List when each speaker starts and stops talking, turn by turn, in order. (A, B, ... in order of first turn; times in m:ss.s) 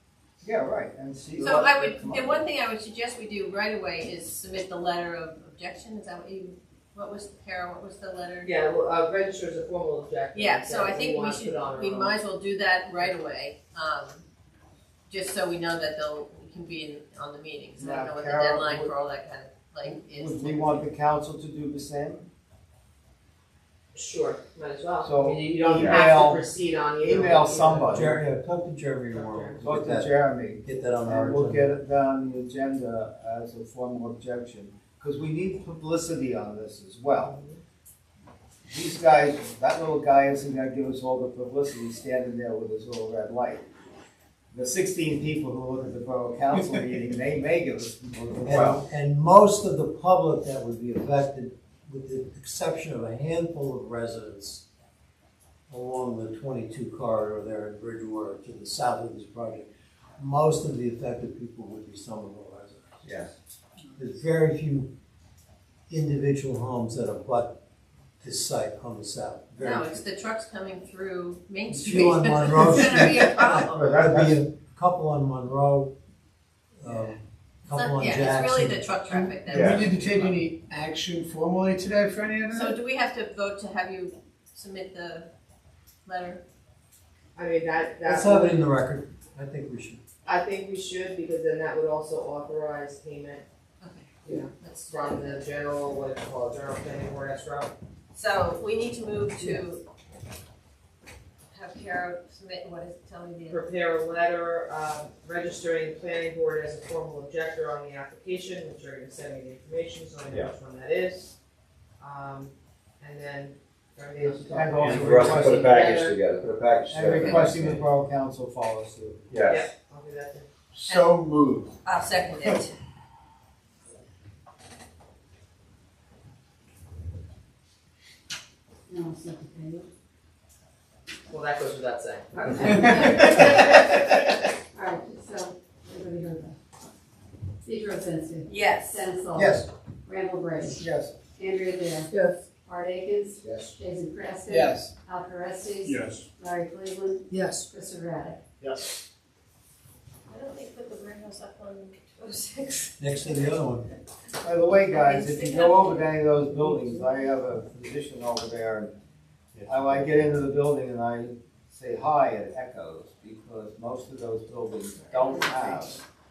0:00.4-0:02.4 A
0:01.4-0:08.5 B
0:08.4-0:12.2 C
0:10.3-0:14.2 B
0:15.1-0:20.9 B
0:17.8-0:18.9 A
0:19.9-0:22.3 A
0:23.9-0:28.1 C
0:25.0-0:26.5 A
0:27.0-0:28.1 A
0:27.9-0:31.6 D
0:29.1-0:29.6 C
0:29.6-0:37.3 A
0:37.1-0:37.6 C
0:38.7-0:43.6 A
0:44.5-0:48.8 A
0:48.5-0:54.6 D
0:48.5-0:48.8 E
0:55.7-0:59.7 D
1:00.2-1:03.2 D
1:04.0-1:04.9 D
1:05.9-1:07.6 D
1:08.2-1:10.0 D
1:09.6-1:13.9 B
1:11.7-1:15.9 D
1:13.7-1:14.4 A
1:16.8-1:18.8 D
1:17.7-1:20.0 B
1:19.1-1:22.8 F
1:19.5-1:20.3 E
1:22.5-1:25.3 B
1:26.0-1:26.4 B
1:27.3-1:28.7 C
1:28.0-1:30.0 D
1:30.2-1:33.4 C
1:33.8-1:35.4 B
1:34.2-1:37.7 C
1:38.1-1:39.8 B
1:41.5-1:43.6 B
1:43.5-1:51.3 C
1:52.0-1:56.2 C
1:54.2-1:55.7 A
1:54.8-1:57.8 E
1:56.9-1:59.2 A
1:59.3-1:59.6 E
1:59.4-2:00.4 C
2:00.8-2:01.5 F
2:00.8-2:01.1 B
2:01.8-2:02.7 B
2:08.9-2:09.8 G
2:11.3-2:12.7 C
2:12.3-2:13.8 G
2:12.8-2:13.2 F
2:14.7-2:16.6 G
2:17.6-2:20.8 G
2:18.5-2:19.1 B
2:19.3-2:19.7 A
2:20.8-2:21.1 A
2:21.4-2:22.1 G
2:22.6-2:28.4 G
2:23.4-2:23.7 E
2:24.5-2:24.9 F
2:25.9-2:26.2 F
2:27.3-2:27.6 F
2:30.3-2:33.5 B
2:33.0-2:33.9 D
2:34.4-2:38.9 A
2:34.9-2:36.2 B
2:39.5-2:40.2 E
2:39.7-2:46.0 A
2:45.3-2:45.8 B